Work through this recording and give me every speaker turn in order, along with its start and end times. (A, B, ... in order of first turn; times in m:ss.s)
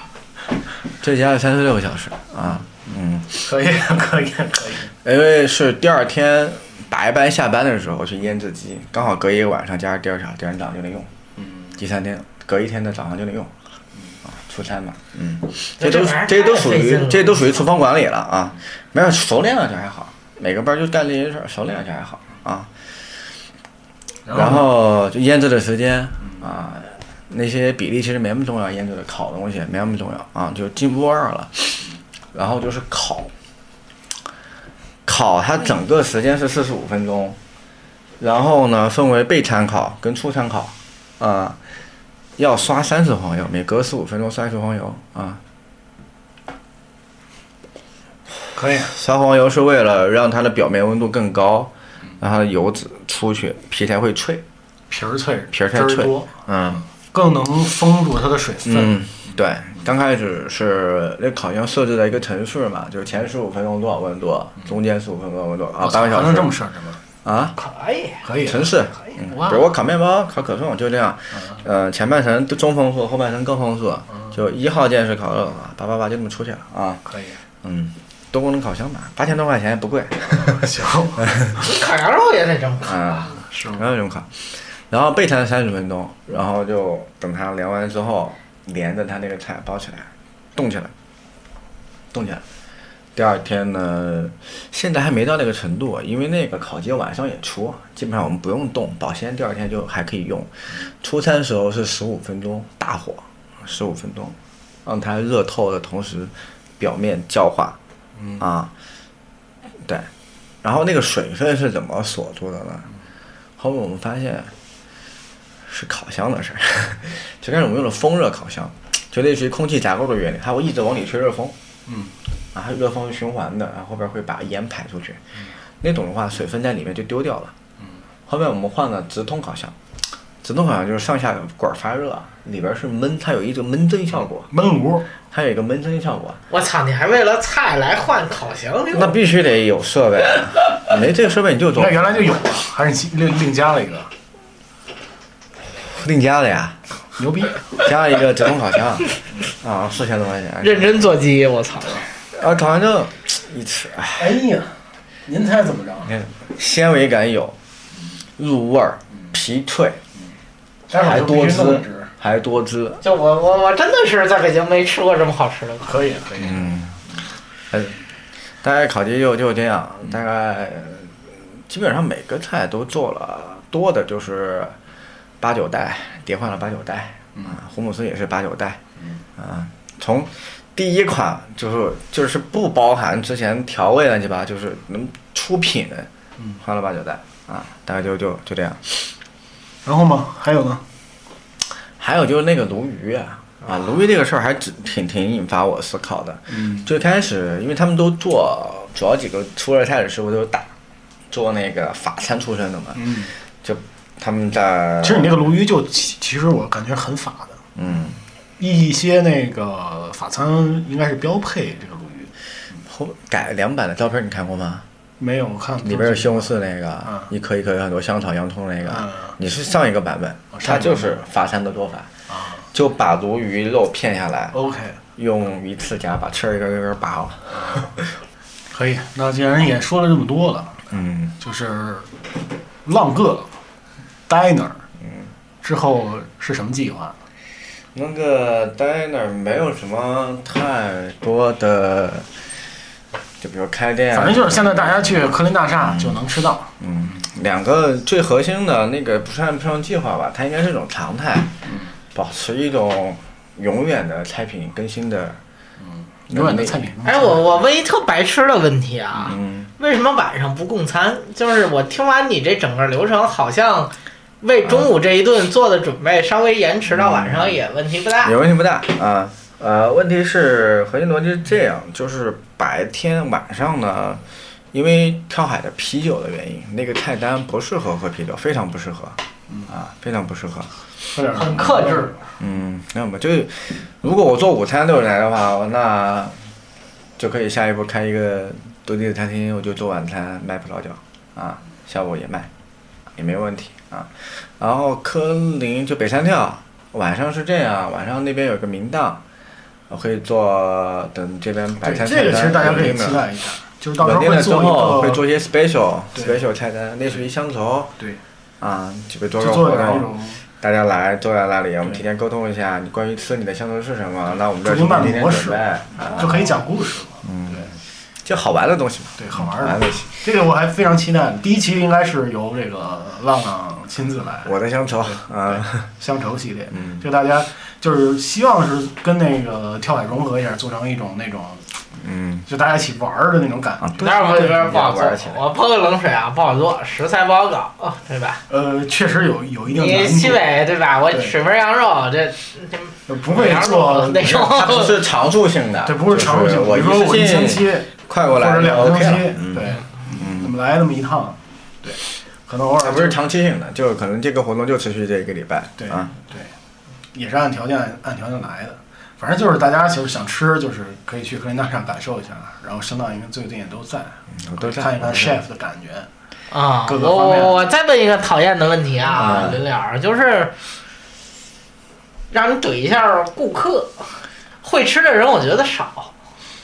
0:01.0-0:03.5 A
0:03.4-0:04.9 B
0:05.0-0:11.1 A
0:11.7-0:13.5 A
0:14.3-0:22.7 A
0:15.8-0:17.5 C
0:24.3-0:24.7 B
0:24.3-0:33.3 A
0:35.1-0:37.4 A
0:38.2-0:41.6 A
0:42.4-0:45.4 A
0:48.6-0:48.9 B
0:48.8-0:54.4 A
0:54.9-0:56.3 B
0:55.5-0:56.8 A
0:57.0-0:58.9 B
0:58.6-1:06.5 A
1:05.8-1:07.0 B
1:07.2-1:07.6 A
1:07.6-1:08.2 C
1:08.2-1:09.7 B
1:08.4-1:17.0 A
1:17.0-1:17.4 B
1:17.6-1:20.7 A
1:20.3-1:21.4 B
1:21.2-1:21.6 A
1:21.6-1:23.3 C
1:22.8-1:30.9 A
1:23.4-1:23.9 B
1:32.1-1:32.4 A
1:33.2-1:47.8 A
1:48.2-1:48.4 B
1:48.4-1:48.7 A
1:50.6-1:52.9 A
1:53.6-1:54.5 A
1:55.6-2:01.6 A
2:01.9-2:02.1 B
2:02.5-2:05.2 A
2:05.8-2:07.5 A
2:08.3-2:09.7 A
2:10.4-2:14.5 A
2:14.5-2:15.1 B
2:15.3-2:16.4 A
2:16.5-2:19.2 C
2:18.9-2:22.4 A
2:21.7-2:24.1 B
2:25.8-2:26.8 A
2:27.2-2:27.6 B
2:27.7-2:31.1 A
2:30.6-2:32.1 C
2:32.3-2:34.4 A
2:34.2-2:36.1 B
2:36.1-2:37.6 A
2:38.4-2:40.0 A
2:40.9-2:42.1 B
2:40.9-2:43.0 A
2:43.0-2:46.0 C
2:45.8-2:46.7 B
2:46.4-2:47.0 A
2:47.7-2:48.0 A
2:48.6-2:54.7 A
2:55.4-2:58.8 A
2:59.4-3:06.1 A
3:06.6-3:09.1 A
3:09.8-3:10.8 B
3:12.0-3:20.7 A
3:16.5-3:16.9 B
3:21.3-3:25.4 A
3:23.0-3:23.3 B
3:25.0-3:27.7 B
3:27.8-3:28.2 A
3:28.6-3:32.3 B
3:32.8-3:34.8 A
3:35.2-3:36.5 B
3:35.8-3:42.1 A
3:37.0-3:37.3 B
3:38.8-3:39.4 B
3:40.5-3:41.1 B
3:42.3-3:42.6 B
3:42.7-3:44.6 A
3:44.5-3:45.0 B
3:45.2-3:48.1 A
3:47.5-3:47.9 B
3:48.7-3:52.1 B
3:50.9-3:51.3 A
3:52.8-3:53.5 B
3:54.3-3:54.8 B
3:55.0-3:55.3 A
3:55.6-3:57.2 B
3:57.9-4:02.3 A
4:03.4-4:05.2 A
4:04.1-4:06.7 B
4:05.8-4:06.2 A
4:06.8-4:11.5 A
4:12.1-4:15.4 A
4:16.3-4:17.4 B
4:16.3-4:16.8 A
4:17.0-4:28.4 C
4:19.2-4:19.7 A
4:24.6-4:24.9 A
4:26.9-4:27.6 A
4:28.2-4:34.2 A
4:34.7-4:40.7 A
4:41.1-4:42.1 B
4:41.3-4:42.2 C
4:41.5-4:41.8 A
4:42.4-4:46.4 A
4:47.2-4:52.5 A
4:53.2-4:59.2 A
4:59.9-5:03.3 A
5:01.8-5:05.2 B
5:04.0-5:08.0 A
5:08.6-5:16.6 A
5:09.4-5:10.4 B
5:14.6-5:17.7 B
5:17.2-5:17.7 A
5:18.2-5:20.2 A
5:19.2-5:25.2 B
5:24.4-5:25.9 A
5:26.0-5:31.6 B
5:26.7-5:27.1 A
5:32.0-5:32.4 A
5:32.5-5:34.0 B
5:33.8-5:35.4 A
5:34.0-5:38.4 C
5:38.5-5:40.4 B
5:39.7-5:45.0 C
5:43.1-5:44.6 B
5:44.4-5:50.5 A
5:45.8-5:53.2 B
5:52.8-5:56.1 A
5:55.8-5:56.6 B
5:57.1-6:06.1 B
6:04.4-6:05.4 A
6:06.5-6:10.5 C
6:06.8-6:07.6 B
6:09.1-6:09.6 A
6:12.3-6:14.1 C
6:14.6-6:16.1 C